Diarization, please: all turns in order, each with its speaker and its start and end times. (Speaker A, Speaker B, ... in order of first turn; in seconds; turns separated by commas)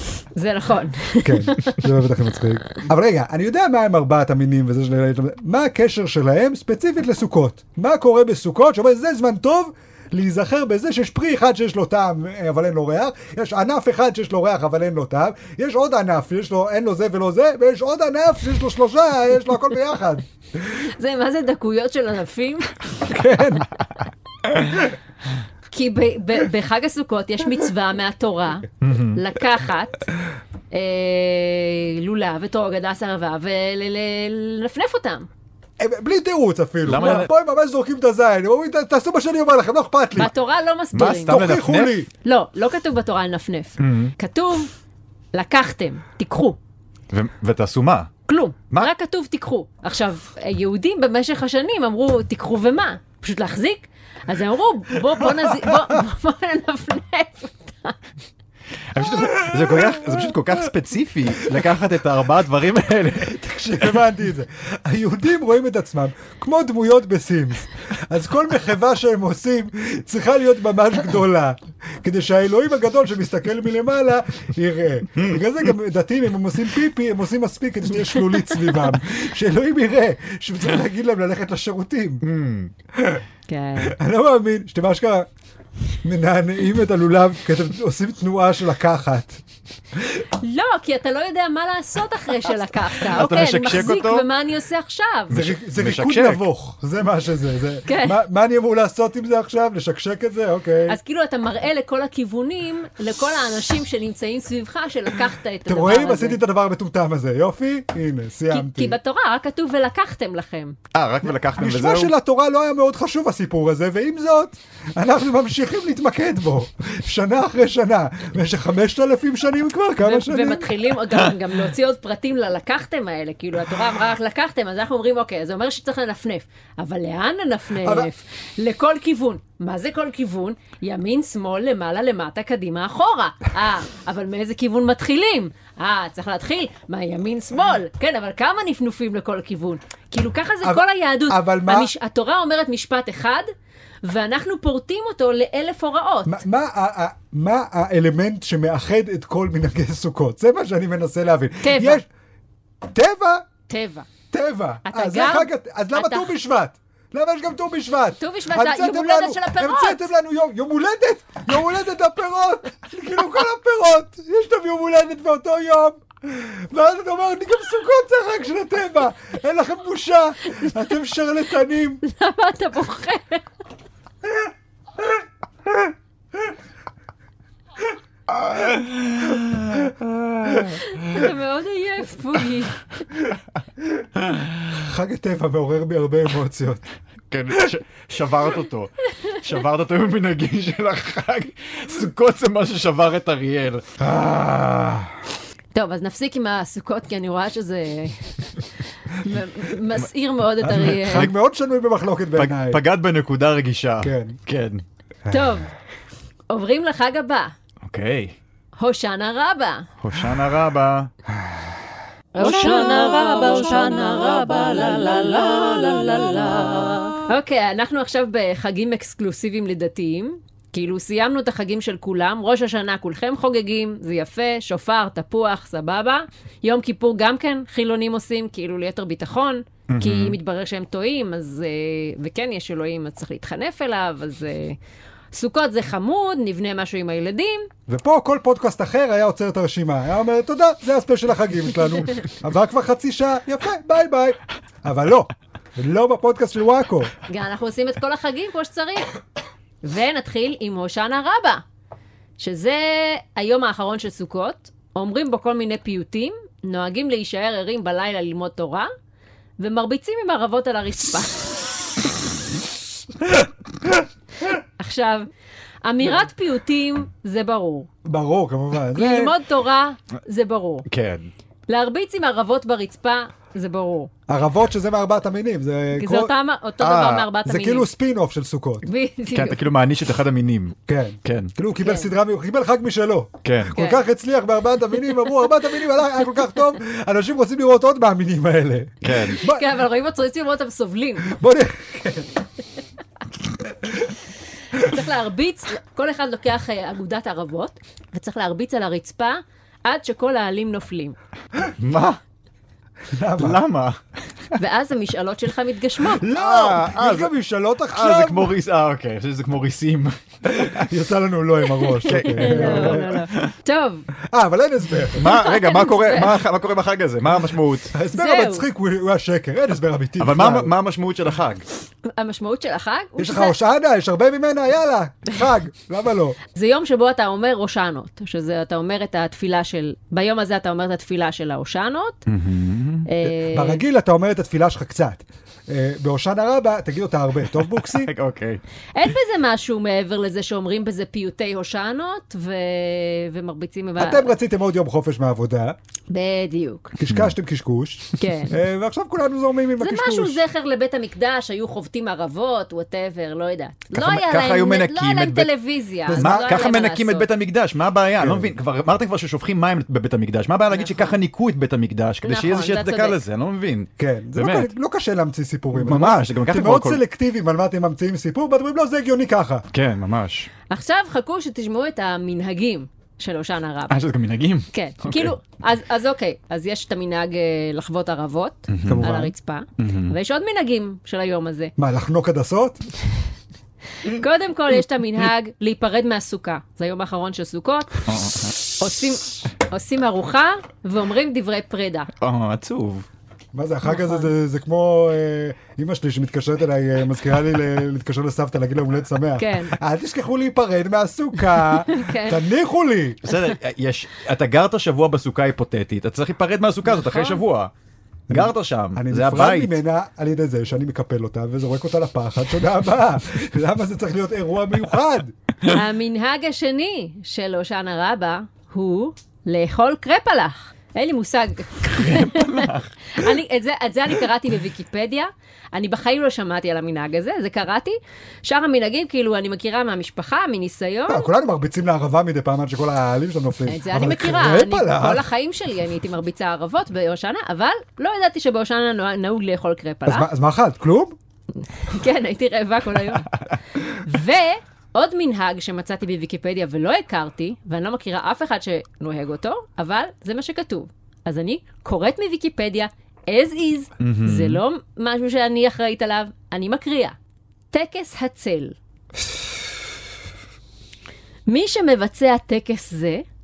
Speaker A: 0.3-1.8, Speaker B: 1.2-20.3, Speaker A: 20.8-22.8, Speaker B: 23.0-23.7, Speaker A: 25.7-30.0, Speaker C: 28.8-29.2, Speaker A: 30.7-35.3, Speaker B: 35.8-40.3, Speaker C: 36.8-37.3, Speaker A: 40.1-41.4, Speaker C: 40.9-42.0, Speaker B: 41.2-42.1, Speaker A: 42.2-44.7, Speaker C: 43.8-44.1, Speaker A: 45.3-46.6, Speaker C: 47.1-48.1, Speaker A: 48.3-58.0, Speaker C: 58.9-63.4, Speaker B: 59.3-60.3, Speaker B: 63.2-82.2, Speaker C: 82.2-82.7, Speaker B: 82.9-83.2, Speaker A: 83.5-84.0, Speaker B: 83.8-85.3, Speaker B: 86.0-89.4, Speaker A: 90.3-95.4, Speaker C: 93.0-94.2, Speaker C: 95.3-96.4, Speaker B: 95.3-101.0, Speaker A: 97.9-98.2, Speaker A: 100.9-106.4, Speaker B: 105.7-109.0, Speaker A: 108.5-110.8, Speaker C: 110.9-112.1, Speaker B: 111.2-120.7, Speaker A: 120.0-143.5, Speaker B: 127.8-128.1, Speaker B: 140.6-141.9, Speaker A: 144.0-146.4, Speaker B: 146.2-152.0, Speaker A: 151.6-152.0, Speaker B: 152.9-153.5, Speaker A: 153.7-154.1, Speaker B: 154.3-172.0, Speaker A: 154.8-156.3, Speaker A: 158.2-160.1, Speaker A: 172.0-173.4, Speaker C: 178.5-180.8, Speaker A: 180.9-182.8, Speaker B: 184.7-186.8, Speaker C: 187.3-193.8, Speaker B: 194.0-195.2, Speaker A: 195.7-198.4, Speaker A: 199.1-201.3, Speaker B: 200.6-202.8, Speaker C: 200.7-201.3, Speaker C: 202.3-204.8, Speaker B: 204.0-204.4, Speaker B: 205.2-205.6, Speaker A: 205.3-205.7, Speaker A: 206.5-207.5, Speaker C: 207.8-208.3, Speaker A: 208.8-209.9, Speaker C: 210.0-211.1, Speaker A: 212.3-234.8, Speaker C: 229.9-230.4, Speaker A: 235.3-237.7, Speaker B: 237.9-247.1, Speaker A: 247.3-249.1, Speaker A: 249.8-251.6, Speaker A: 252.4-258.9, Speaker A: 259.6-261.5, Speaker A: 264.8-265.3, Speaker A: 265.8-267.9, Speaker B: 268.0-269.3, Speaker A: 268.9-270.9, Speaker C: 270.9-271.3, Speaker A: 271.7-274.1, Speaker B: 274.3-276.3, Speaker A: 275.9-277.9, Speaker C: 276.8-277.3, Speaker B: 277.4-278.9, Speaker A: 278.8-279.6, Speaker C: 279.3-281.5, Speaker B: 280.9-289.6, Speaker A: 281.8-282.1, Speaker C: 283.4-283.8, Speaker A: 283.7-284.0, Speaker C: 289.0-289.4, Speaker A: 289.4-291.3, Speaker B: 291.2-292.3, Speaker A: 294.7-301.1, Speaker C: 301.8-302.2, Speaker B: 303.1-303.6, Speaker C: 303.4-304.0, Speaker A: 304.6-306.3, Speaker B: 306.2-308.5, Speaker C: 306.2-307.3, Speaker C: 307.9-310.9, Speaker B: 310.5-313.2, Speaker C: 312.0-313.5, Speaker A: 312.1-314.1, Speaker B: 314.3-315.3, Speaker C: 315.1-317.9, Speaker A: 315.2-316.4, Speaker B: 317.9-320.7, Speaker A: 318.1-318.6, Speaker C: 320.2-321.6, Speaker A: 322.1-323.5, Speaker B: 323.2-326.4, Speaker A: 326.5-332.2, Speaker C: 332.3-333.1, Speaker A: 333.1-333.8, Speaker B: 333.2-338.1, Speaker C: 337.9-338.6, Speaker A: 338.9-344.3, Speaker B: 344.0-345.8, Speaker A: 346.1-346.9, Speaker B: 347.0-350.4, Speaker A: 348.2-348.5, Speaker A: 349.8-357.3, Speaker C: 353.9-355.5, Speaker B: 356.1-356.6, Speaker C: 356.1-364.7, Speaker B: 358.2-358.5, Speaker A: 360.7-361.1, Speaker A: 362.2-363.2, Speaker B: 364.0-369.6, Speaker C: 365.7-367.0, Speaker C: 369.7-370.5, Speaker A: 370.7-374.0, Speaker C: 373.9-375.3, Speaker A: 374.7-381.7, Speaker C: 378.7-379.1, Speaker B: 378.9-379.3, Speaker C: 379.8-380.1, Speaker B: 381.8-382.8, Speaker A: 384.0-388.0, Speaker C: 388.1-388.5, Speaker A: 388.8-392.1, Speaker C: 392.2-393.1, Speaker B: 393.5-403.3, Speaker A: 393.9-394.3, Speaker A: 399.4-399.7, Speaker A: 401.9-402.4, Speaker C: 403.2-407.7, Speaker A: 406.9-407.4, Speaker B: 408.3-415.3, Speaker C: 408.3-409.7, Speaker A: 415.6-431.3, Speaker C: 422.0-422.9, Speaker B: 431.1-435.2, Speaker A: 433.7-440.3, Speaker B: 440.1-441.1, Speaker A: 441.7-443.3, Speaker A: 443.9-457.1, Speaker C: 454.0-454.6, Speaker A: 457.7-458.8, Speaker A: 461.5-463.2